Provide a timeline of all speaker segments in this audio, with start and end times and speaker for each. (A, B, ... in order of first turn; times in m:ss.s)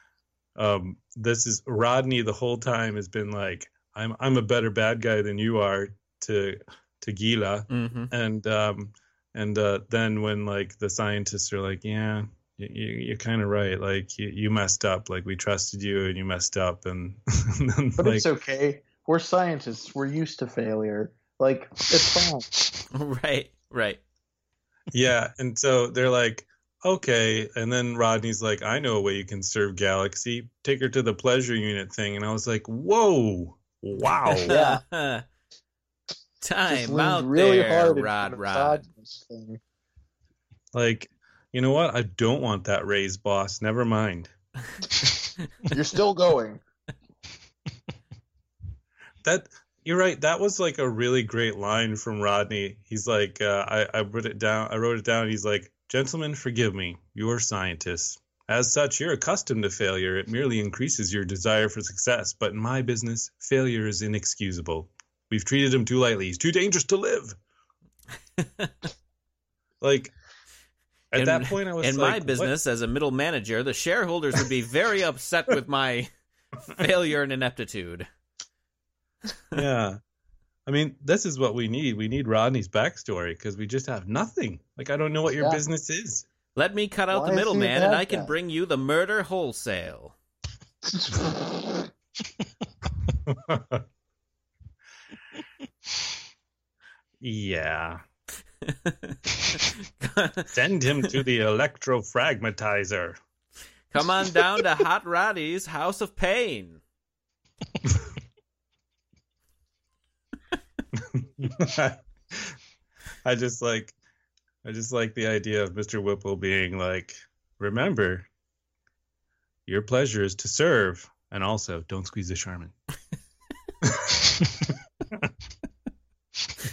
0:00.6-0:18.3 A
0:07.7-0:08.1 B
0:18.0-0:22.5 C
0:22.9-0:24.0 B
0:24.9-0:34.5 A
0:34.5-0:34.8 C
0:34.5-0:35.2 B
0:36.4-0:38.9 B
0:36.7-0:39.6 C
0:40.7-0:44.3 A
0:45.7-0:46.6 C
0:49.2-1:07.4 A
1:08.4-1:08.9 B
1:09.8-1:10.1 A
1:11.1-1:12.5 A
1:11.2-1:16.1 B
1:16.7-1:18.1 B
1:19.5-1:20.0 A
1:20.7-1:26.3 A
1:26.6-1:30.2 B
1:27.1-1:28.3 C
1:30.9-1:31.9 C
1:33.3-1:33.8 A
1:37.2-1:38.0 A
1:38.6-1:40.5 B
1:40.5-1:43.2 A
1:43.9-1:46.8 B
1:50.9-1:52.6 A
1:53.2-1:54.0 A
1:54.6-1:58.3 A
1:59.7-2:02.7 A
2:03.8-2:04.3 A